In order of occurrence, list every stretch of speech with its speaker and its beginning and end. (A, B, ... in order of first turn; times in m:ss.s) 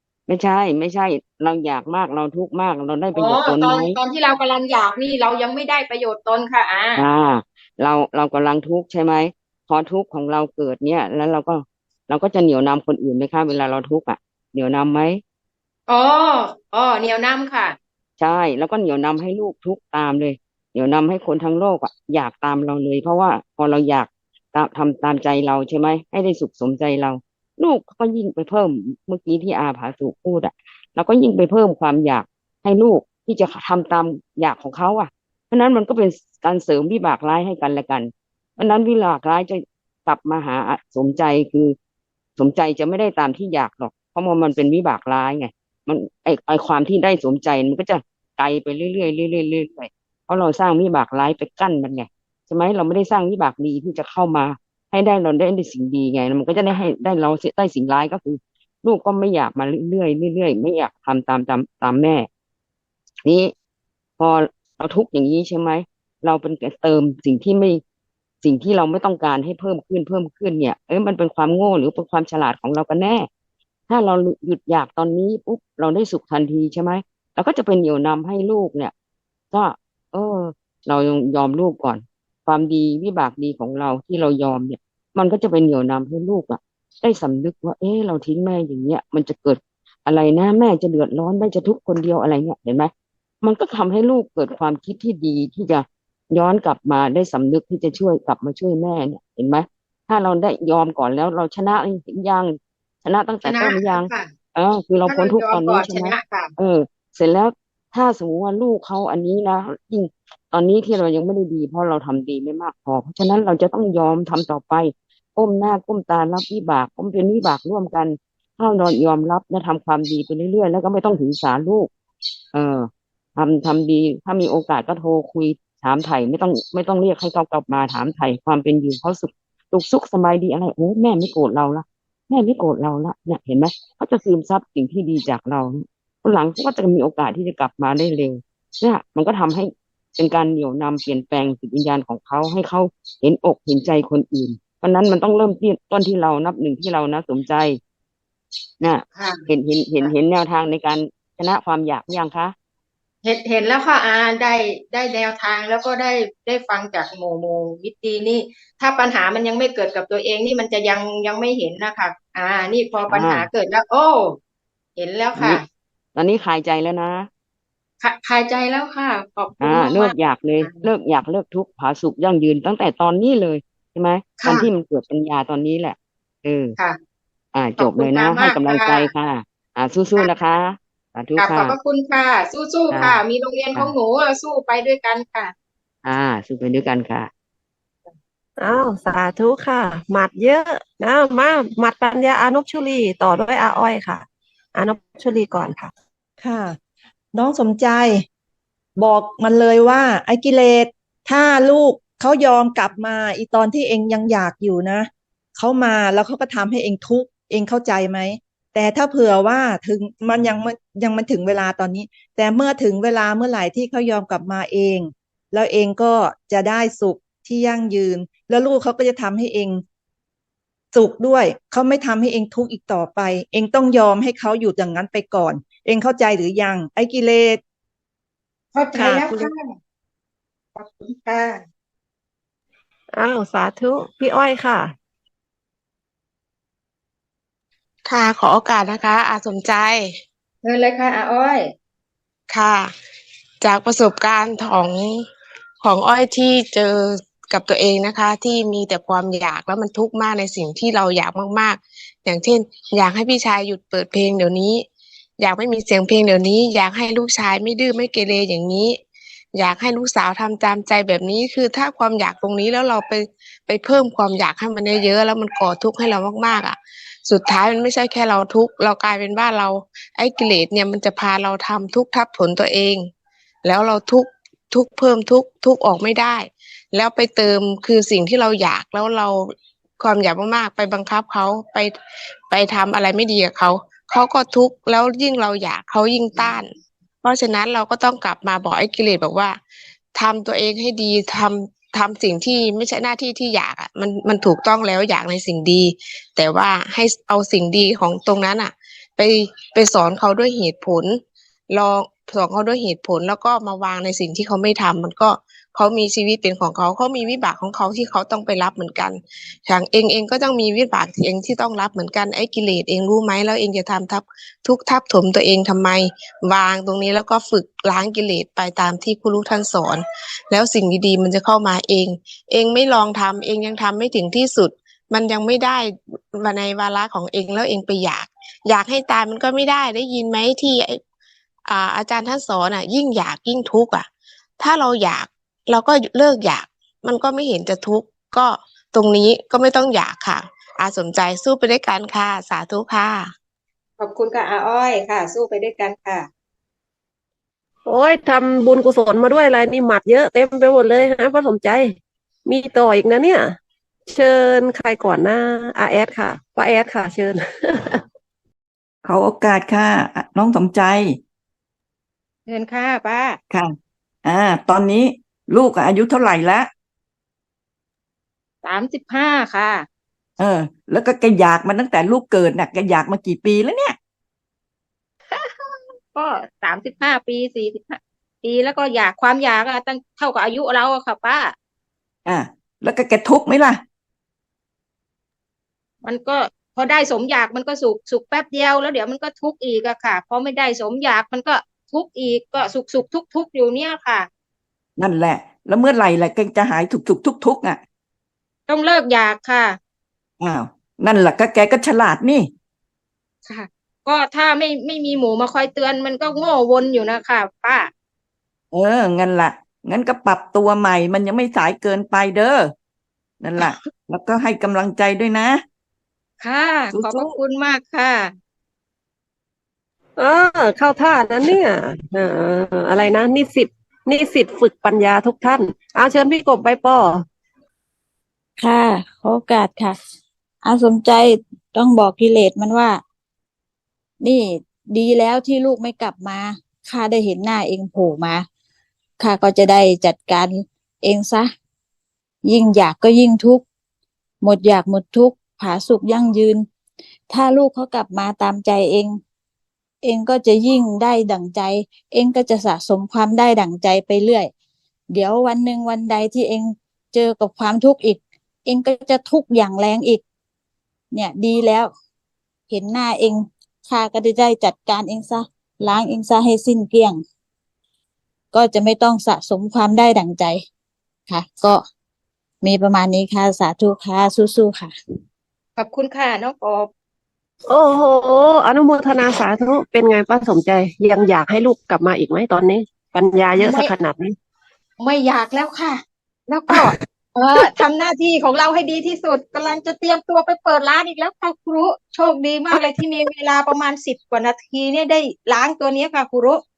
0:00.3-0:04.0 A
0:03.1-0:07.0 B
0:07.0-0:15.2 A
0:15.9-0:17.8 B
0:18.2-0:41.8 A
0:42.4-1:02.3 A
1:03.2-1:03.5 A
1:04.2-1:07.8 A
1:08.4-1:13.3 A
1:13.9-1:18.9 A
1:19.5-1:32.9 A
1:33.4-2:01.9 A
1:43.4-1:44.3 B
1:45.0-1:46.5 B
2:02.5-2:27.8 A
2:28.8-2:32.5 A
2:29.1-2:29.4 B
2:33.2-2:44.4 B
2:43.1-2:43.5 A
2:45.0-2:45.6 B
2:45.4-2:45.6 A
2:46.1-2:47.3 A
2:48.0-2:50.9 B
2:49.6-2:56.8 A
2:54.4-2:54.6 B
2:57.5-3:01.8 A
2:57.8-2:59.1 B
3:01.4-3:05.5 B
3:02.9-3:03.2 A
3:06.0-3:07.3 A
3:08.6-3:15.9 C
3:16.4-3:16.8 D
3:17.3-3:18.2 D
3:19.0-3:39.8 D
3:40.9-3:47.6 D
3:48.7-3:49.7 B
3:48.9-3:49.5 D
3:50.8-3:51.6 B
3:53.1-3:54.9 C
3:58.1-4:00.2 E
4:00.6-4:01.7 B
4:02.5-4:02.9 E
4:03.6-4:05.2 E
4:05.8-4:14.8 E
4:15.4-4:19.0 E
4:19.5-4:33.1 E
4:33.6-4:41.9 E
4:42.5-4:49.6 E
4:50.1-5:31.0 E
5:31.7-5:34.1 E
5:34.6-5:43.3 E
5:44.0-5:46.3 B
5:47.8-5:52.0 C
5:52.5-5:53.5 C
5:54.1-5:58.0 C
5:59.0-6:01.2 F
6:02.5-6:03.4 B
6:03.5-6:06.7 F
6:08.6-6:09.8 B
6:10.4-6:14.0 F
6:15.3-6:21.5 B
6:22.2-6:23.8 F
6:26.0-6:34.3 B
6:35.0-6:37.8 F
6:38.7-6:39.8 B
6:40.4-6:42.5 F
6:43.5-6:47.9 B
6:48.7-6:52.7 F
6:53.4-6:55.6 F
6:56.4-6:58.3 B
6:56.9-6:57.3 F
7:00.2-7:07.2 C
7:08.6-7:10.0 G
7:10.6-7:13.0 G
7:14.2-7:18.5 G
7:19.2-7:21.5 G
7:22.4-7:23.6 G
7:24.4-7:26.7 G
7:27.3-7:29.2 G
7:30.0-7:34.5 G
7:35.1-7:40.2 G
7:41.1-7:41.9 G
7:42.7-7:47.2 G
7:48.5-7:50.6 G
7:51.3-7:51.8 G
7:52.6-7:54.9 G
7:55.8-7:56.9 B
7:57.7-8:04.3 C
8:03.6-8:03.9 B
8:05.0-8:16.6 B